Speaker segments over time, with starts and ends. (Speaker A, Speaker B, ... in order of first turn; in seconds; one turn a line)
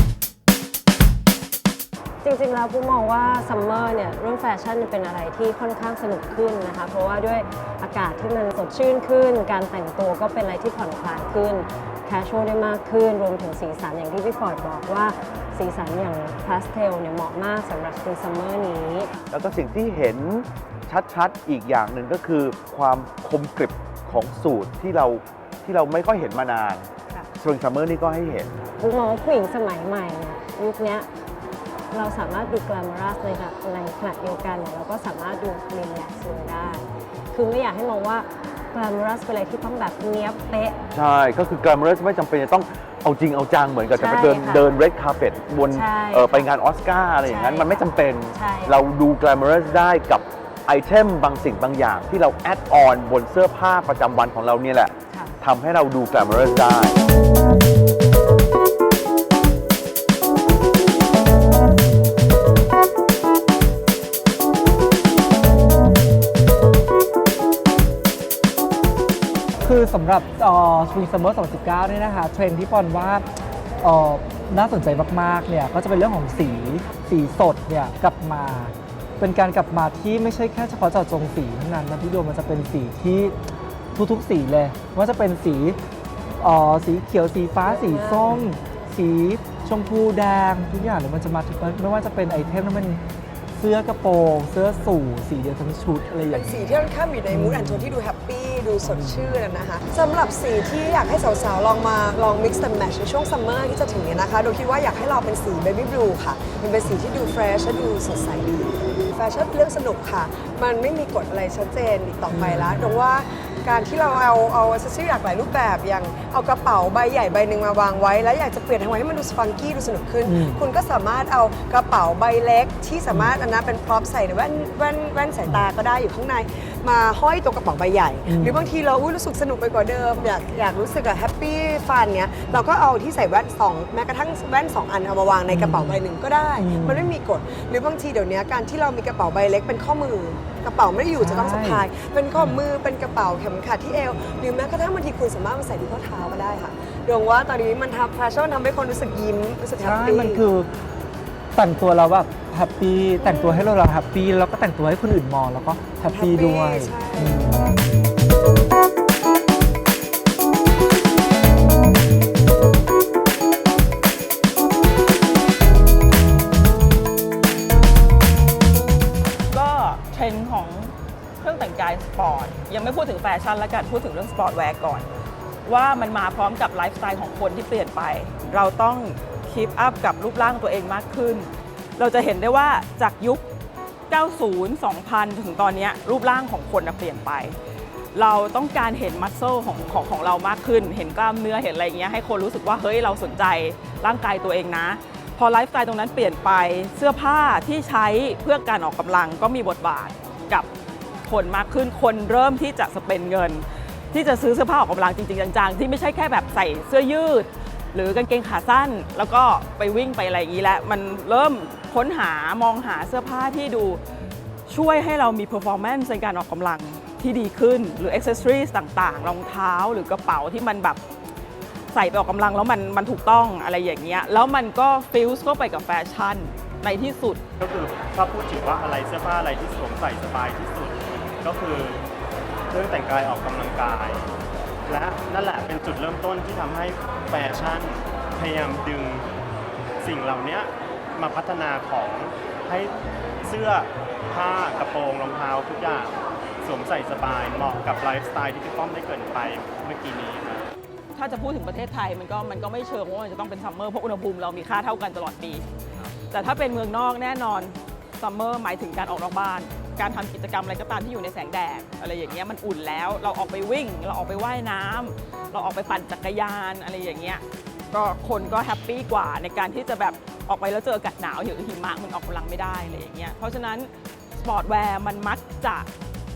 Speaker A: 2.2-19.1
Speaker B: 19.3-28.5
Speaker A: 28.8-31.1
Speaker A: 31.9-40.8
Speaker B: 40.9-57.0
Speaker A: 43.9-44.8
Speaker A: 45.7-46.5
Speaker A: 47.2-48.8
Speaker A: 55.1-55.4
Speaker C: 69.6-73.2
Speaker C: 73.8-83.3
Speaker C: 83.9-85.8
Speaker C: 86.4-93.0
Speaker D: 87.6-88.5
Speaker C: 93.5-98.0
Speaker D: 96.3-150.4
Speaker C: 98.8-99.3
Speaker C: 112.3-113.0
Speaker C: 120.3-120.6
Speaker C: 128.3-128.6
Speaker C: 135.5-136.0
Speaker C: 136.6-137.1
Speaker C: 141.2-141.8
Speaker C: 142.4-142.6
Speaker C: 149.8-150.7
Speaker C: 151.5-157.7
Speaker D: 156.1-157.5
Speaker E: 169.5-175.1
Speaker E: 175.6-183.4
Speaker E: 184.1-187.6
Speaker E: 188.1-200.7
Speaker E: 201.2-214.0
Speaker E: 214.7-221.0
Speaker E: 221.9-227.4
Speaker F: 227.6-232.0
Speaker F: 232.7-234.3
Speaker F: 234.8-239.3
Speaker F: 240.0-242.9
Speaker F: 243.4-250.7
Speaker E: 251.1-255.6
Speaker E: 256.3-275.9